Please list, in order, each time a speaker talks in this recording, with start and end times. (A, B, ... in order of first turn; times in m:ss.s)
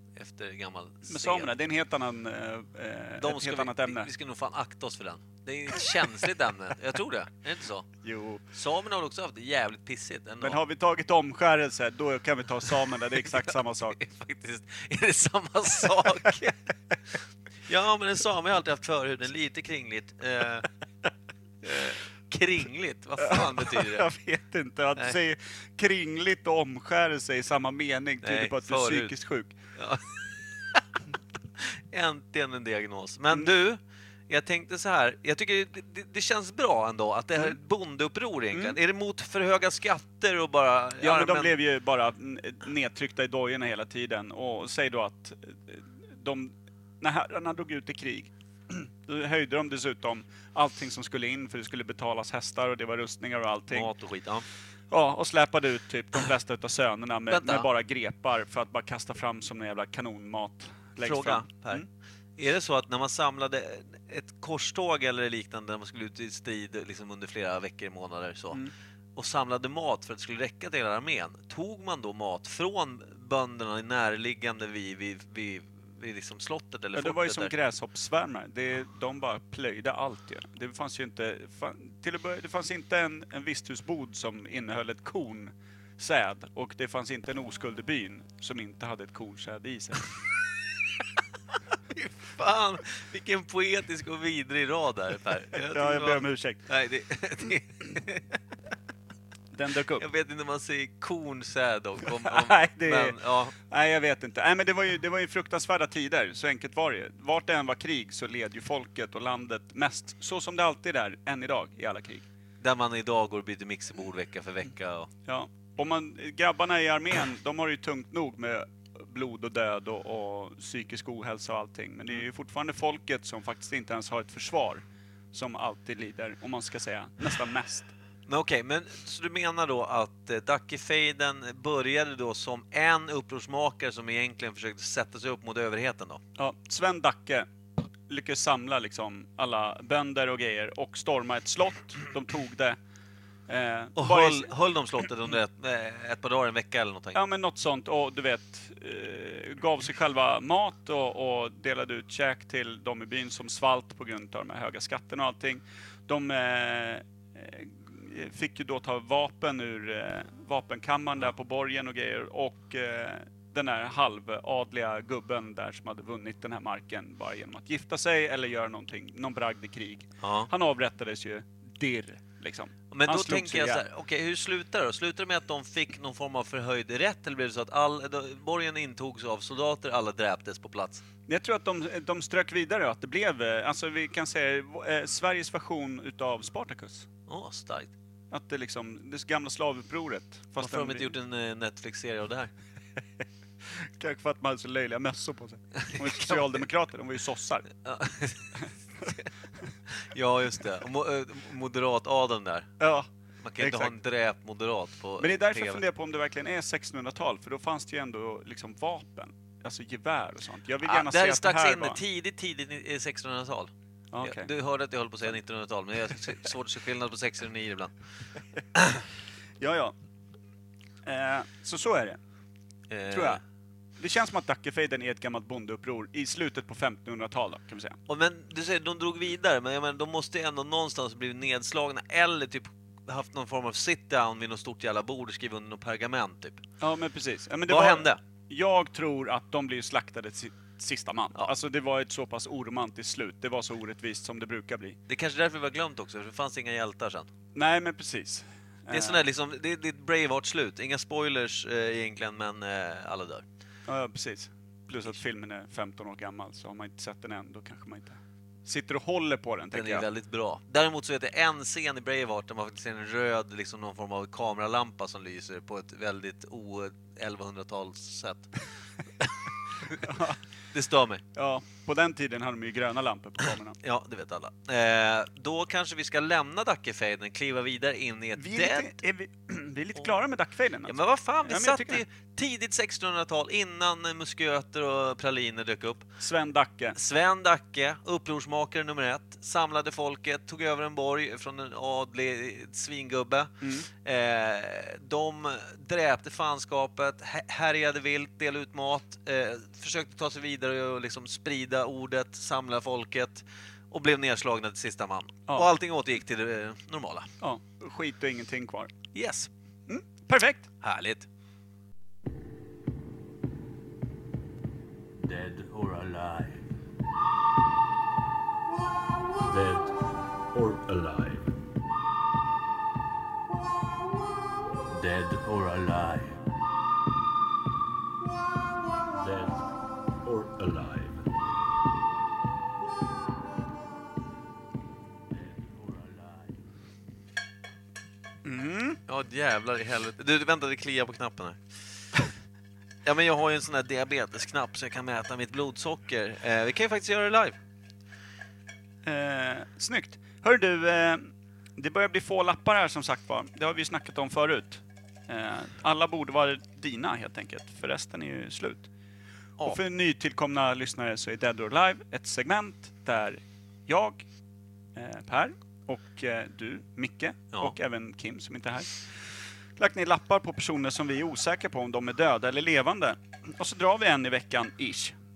0:00.2-0:01.5 A
0:01.1-0:04.1 B
0:03.2-0:07.9 A
0:08.0-0:08.4 B
0:08.5-0:10.6 A
0:10.4-0:14.0 B
0:13.2-0:16.6 A
0:16.1-0:16.3 B
0:17.7-0:20.7 A
0:21.6-0:24.1 A
0:23.2-0:29.6 B
0:28.2-0:29.1 A
0:29.8-0:30.8 A
0:31.6-0:41.6 A
0:38.5-0:38.8 B
0:41.0-0:53.9 B
0:53.7-0:54.4 A
0:54.9-1:01.9 B
0:57.3-0:57.7 A
1:01.0-1:01.8 A
1:02.4-1:08.6 A
1:09.2-1:17.5 A
1:17.0-1:30.0 B
1:31.9-1:38.4 A
1:35.5-1:36.6 B
1:39.5-1:40.1 B
1:40.0-1:43.6 A
1:42.1-1:52.3 B
1:52.6-1:55.1 A
1:55.3-2:07.9 B
2:08.3-2:16.2 A
2:16.4-2:17.5 B
2:18.1-2:22.8 B
2:23.5-2:24.5 B
2:24.0-2:27.2 A
2:27.1-2:53.9 B
2:50.2-2:50.5 A
2:52.9-3:01.0 A
3:01.3-3:07.1 B
3:07.3-3:07.9 A
3:08.3-3:11.2 B
3:10.6-3:12.5 A
3:13.6-3:17.7 B
3:15.8-3:16.6 A
3:17.8-3:19.3 A
3:19.9-3:22.7 A
3:22.8-3:24.0 B
3:23.4-3:25.8 A
3:25.2-3:32.0 B
3:30.8-3:37.9 A
3:34.1-3:34.5 B
3:38.8-3:39.0 A
3:39.6-3:40.0 B
3:41.0-3:42.2 B
3:42.9-3:43.4 A
3:43.1-3:43.4 B
3:44.0-3:48.0 B
3:48.1-3:56.6 A
3:56.8-4:05.0 B
3:57.7-3:58.2 A
4:05.1-4:07.3 A
4:07.6-4:09.2 B
4:08.9-4:13.4 A
4:13.9-4:20.1 B
4:19.7-4:28.5 A
4:30.0-4:30.4 B
4:30.7-4:31.2 A
4:31.3-4:33.8 B
4:33.8-4:39.0 A
4:38.4-4:42.0 B
4:40.9-4:46.1 A
4:46.2-4:47.0 B
4:46.9-5:07.3 A
4:53.6-4:53.9 B
5:07.4-5:08.9 B
5:09.1-5:09.5 A
5:09.9-5:10.7 B
5:10.8-5:11.3 A
5:15.3-5:16.5 C
5:19.5-5:19.9 C
5:20.6-5:21.5 C
5:25.0-5:26.3 C
5:29.2-5:29.5 C
5:30.3-5:31.2 C
5:38.4-5:39.0 B
5:39.1-5:41.6 A
5:43.0-5:47.6 A
5:49.0-5:58.9 B
5:59.6-6:04.2 B
6:05.0-6:15.2 B